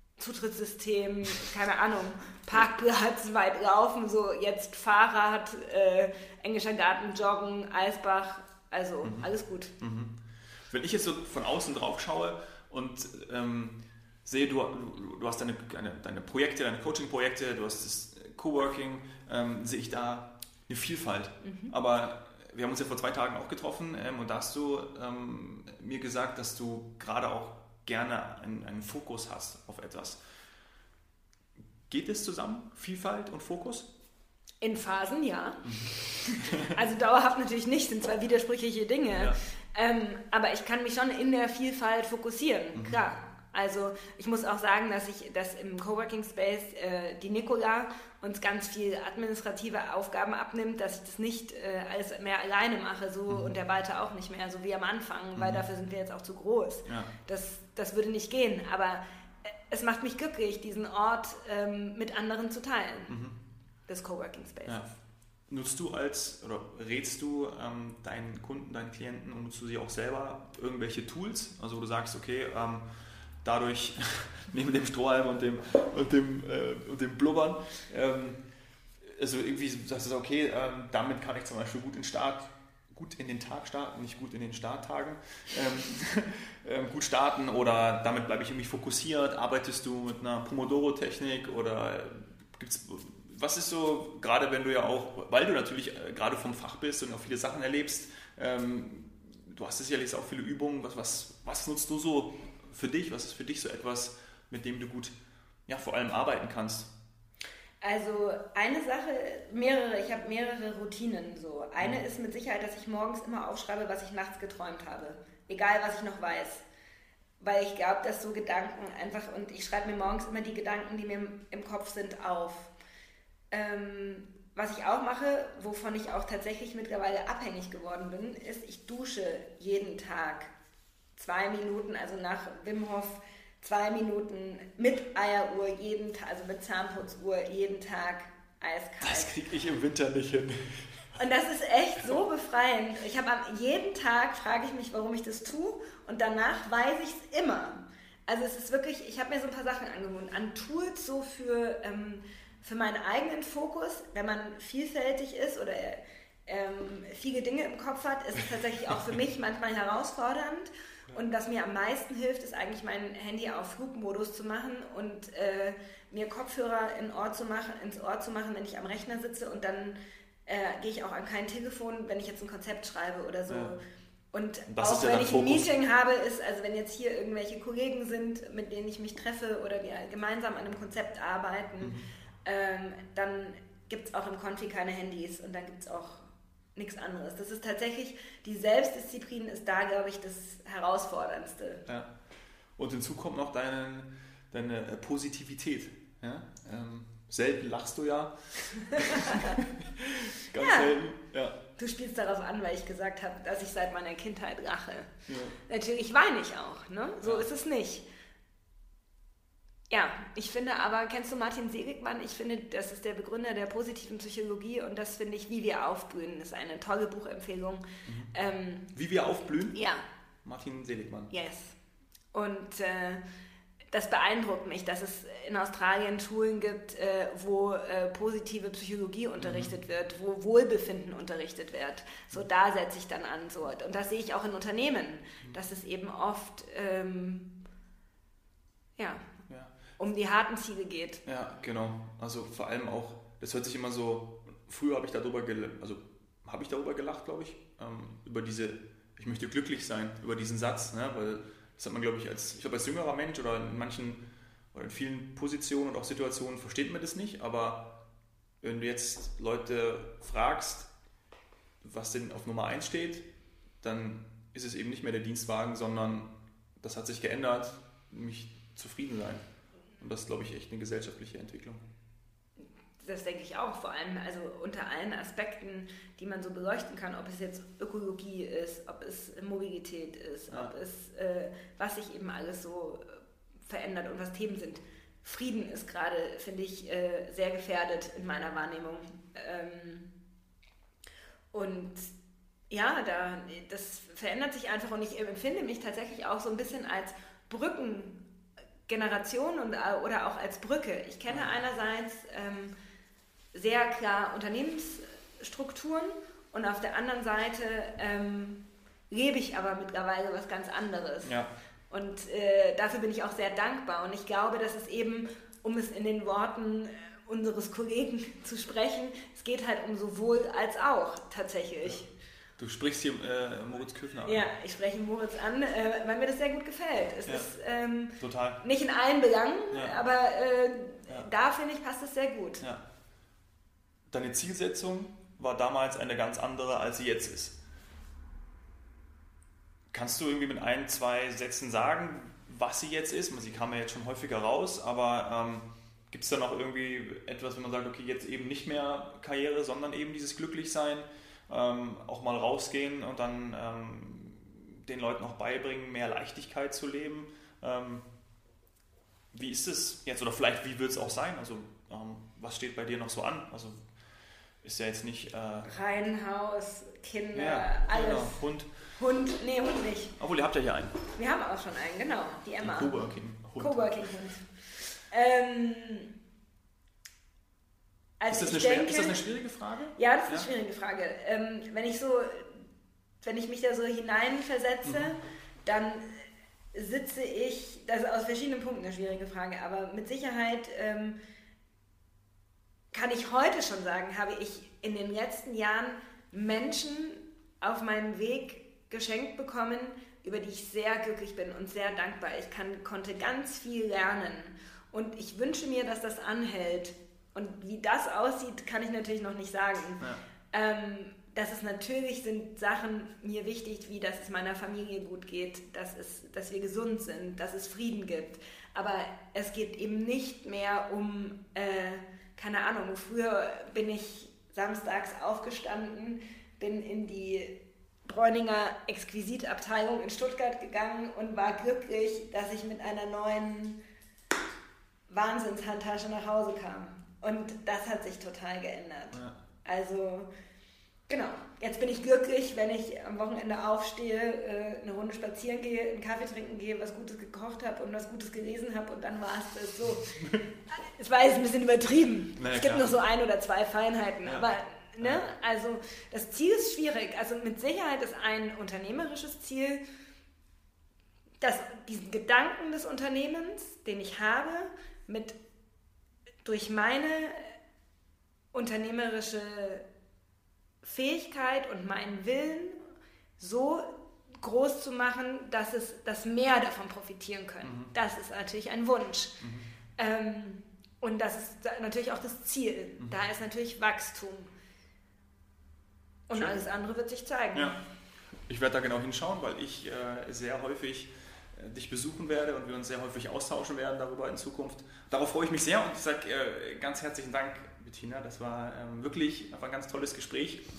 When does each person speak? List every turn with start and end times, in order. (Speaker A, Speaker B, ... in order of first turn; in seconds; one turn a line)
Speaker A: 0.2-9.7
Speaker B: 9.0-30.2
Speaker A: 21.4-21.7
Speaker B: 31.9-33.9
Speaker A: 34.6-59.0
Speaker B: 35.6-36.7
Speaker B: 39.1-39.4
Speaker B: 42.7-43.0
Speaker B: 55.3-55.6
Speaker B: 56.9-57.1
Speaker A: 59.7-63.2
Speaker B: 63.1-63.4
Speaker A: 63.9-64.8
Speaker B: 65.5-72.8
Speaker B: 73.4-78.4
Speaker B: 79.0-105.1
Speaker B: 105.7-106.9
Speaker A: 107.8-116.6
Speaker A: 117.4-122.7
Speaker A: 123.5-130.5
Speaker A: 131.2-139.3
Speaker B: 139.0-141.0
Speaker A: 141.2-173.8
Speaker B: 173.5-173.7
Speaker A: 174.3-191.8
Speaker B: 174.7-175.7
Speaker B: 181.8-182.1
Speaker B: 191.8-192.1
Speaker B: 192.8-201.6
Speaker A: 198.9-199.6
Speaker A: 200.6-201.0
Speaker A: 201.8-208.1
Speaker B: 205.3-205.6
Speaker B: 207.2-207.5
Speaker A: 209.9-218.9
Speaker B: 218.1-218.3
Speaker B: 218.9-219.8
Speaker A: 219.7-220.0
Speaker B: 220.4-221.3
Speaker A: 221.3-221.7
Speaker A: 222.3-223.2
Speaker A: 223.9-237.5
Speaker B: 229.4-229.7
Speaker A: 239.0-239.3
Speaker B: 239.5-239.7
Speaker A: 240.0-241.2
Speaker B: 241.2-254.2
Speaker B: 254.7-257.9
Speaker B: 258.6-260.9
Speaker B: 261.8-263.2
Speaker B: 263.8-269.4
Speaker B: 270.0-271.8
Speaker A: 273.0-290.2
Speaker A: 291.5-292.1
Speaker A: 292.7-298.2
Speaker A: 298.9-302.7
Speaker A: 303.5-311.3
Speaker B: 311.2-311.5
Speaker A: 311.9-322.1
Speaker B: 322.6-324.5
Speaker A: 324.2-332.6
Speaker B: 328.2-328.6
Speaker B: 329.7-330.0
Speaker B: 334.1-337.6
Speaker B: 339.9-358.1
Speaker B: 359.3-363.8
Speaker B: 364.6-365.7
Speaker A: 365.6-368.4
Speaker B: 367.3-368.7
Speaker A: 368.9-370.1
Speaker B: 370.2-371.0
Speaker A: 371.1-372.9
Speaker B: 372.6-374.1
Speaker A: 373.6-374.5
Speaker A: 375.1-376.1
Speaker A: 378.2-379.2
Speaker B: 378.3-380.5
Speaker A: 379.9-382.6
Speaker A: 383.2-386.2
Speaker B: 384.8-385.1
Speaker A: 386.7-391.2
Speaker A: 392.9-433.8
Speaker A: 435.1-440.3
Speaker A: 441.1-459.8
Speaker B: 452.4-453.0
Speaker A: 461.4-465.4
Speaker A: 466.4-467.5
Speaker A: 468.5-469.9
Speaker A: 470.8-472.8
Speaker A: 473.4-479.4
Speaker B: 477.6-477.9
Speaker B: 479.4-479.7
Speaker A: 480.0-484.5
Speaker A: 486.3-487.8
Speaker B: 486.3-486.6
Speaker B: 488.5-500.6